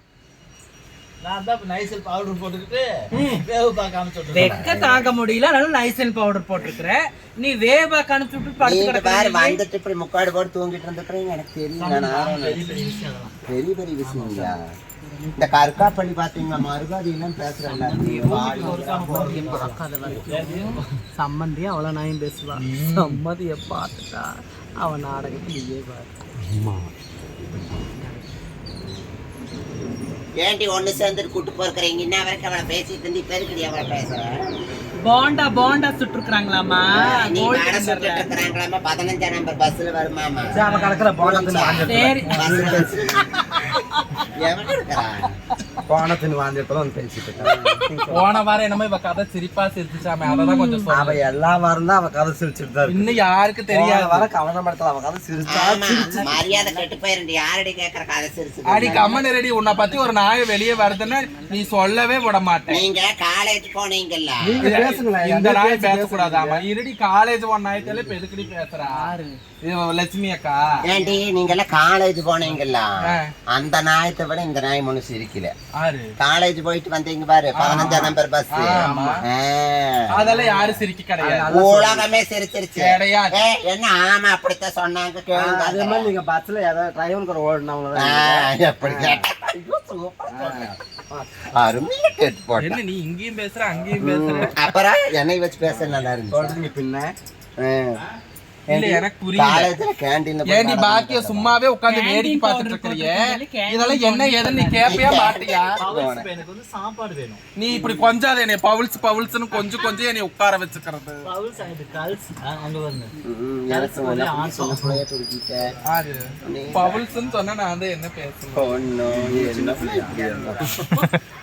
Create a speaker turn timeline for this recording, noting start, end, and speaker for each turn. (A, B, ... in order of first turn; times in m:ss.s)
0:01.2-0:04.6 A
0:04.3-0:09.6 B
0:04.4-0:04.9 C
0:04.7-0:05.0 D
0:08.6-0:12.8 C
0:11.8-0:13.4 A
0:13.5-0:14.6 C
0:14.0-0:14.5 A
0:15.0-0:15.9 B
0:15.4-0:19.8 C
0:17.6-0:26.1 B
0:18.3-0:20.9 A
0:22.6-0:23.2 E
0:26.4-0:27.9 D
0:27.9-0:28.2 B
0:30.4-0:34.5 C
0:35.0-0:38.3 B
0:37.0-0:40.6 C
0:40.5-0:43.1 D
0:41.2-0:43.3 C
0:41.9-0:42.3 B
0:44.4-0:45.3 C
0:45.9-0:48.3 D
0:47.4-0:47.8 C
0:48.1-0:51.2 E
0:50.2-0:50.9 B
0:50.9-0:53.2 D
0:52.9-0:54.3 E
0:53.7-0:56.3 D
0:55.5-0:59.2 C
0:56.1-0:56.8 A
0:58.7-1:02.9 E
0:59.1-1:02.4 B
1:02.7-1:04.6 C
1:04.4-1:06.6 D
1:04.6-1:09.1 E
1:07.8-1:08.2 D
1:08.8-1:09.4 B
1:09.6-1:10.8 E
1:10.8-1:12.9 C
1:13.0-1:13.3 E
1:13.5-1:15.5 C
1:15.8-1:16.1 E
1:16.2-1:20.4 C
1:17.5-1:19.2 E
1:18.7-1:19.2 D
1:20.1-1:22.1 E
1:20.2-1:21.8 D
1:21.5-1:26.1 C
1:22.8-1:23.4 E
1:25.3-1:29.2 D
1:28.0-1:30.7 C
1:30.3-1:31.8 D
1:31.6-1:32.8 C
1:32.6-1:34.6 E
1:34.0-1:36.6 C
1:36.3-1:37.2 D
1:37.6-1:38.0 C
1:38.7-1:39.8 E
1:38.7-1:41.6 C
1:40.5-1:45.8 E
1:41.8-1:45.1 B
1:44.8-1:46.3 C
1:45.8-1:47.4 A
1:47.6-1:51.2 E
1:51.2-1:53.1 A
1:53.2-1:55.7 C
1:53.7-1:55.0 A
1:55.9-1:58.8 E
1:56.5-1:57.0 C
1:56.8-1:57.2 A
1:58.6-2:00.5 C
1:59.1-2:00.7 D
2:00.0-2:00.8 A